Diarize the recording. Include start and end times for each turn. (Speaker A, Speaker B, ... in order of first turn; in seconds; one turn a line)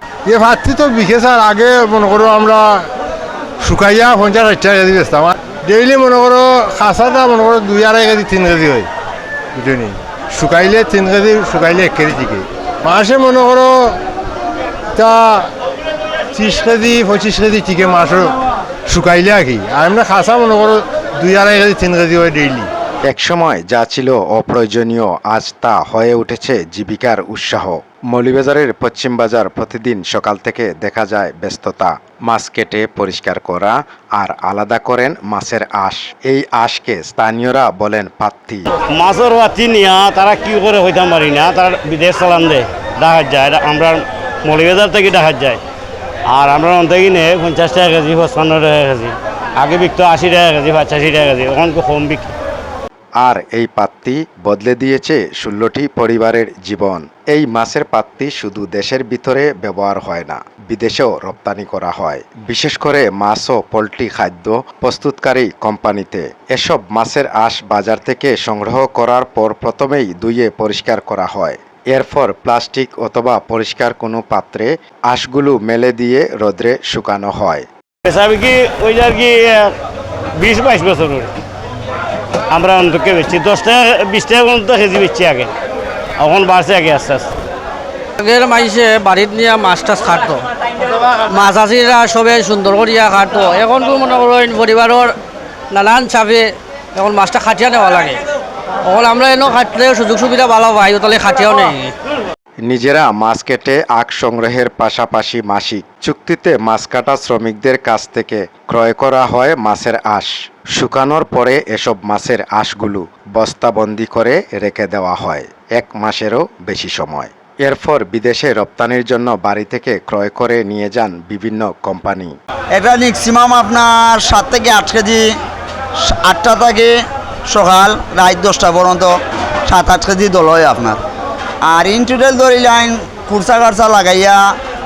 Speaker A: 0.2-2.9
Speaker A: 3.6-8.9
Speaker A: 9.5-14.0
Speaker A: 14.9-15.5
Speaker A: 16.3-22.7
Speaker B: 23.1-38.6
Speaker C: 38.8-45.6
Speaker C: 46.3-52.3
Speaker B: 53.2-77.7
Speaker C: 78.0-79.7
Speaker C: 80.3-81.3
Speaker C: 82.5-85.5
Speaker C: 86.2-87.3
Speaker D: 88.2-95.1
Speaker D: 95.7-98.2
Speaker D: 98.8-101.9
Speaker B: 102.6-122.3
Speaker E: 122.7-125.3
Speaker E: 126.0-127.0
Speaker E: 127.5-131.0
Speaker E: 131.6-134.6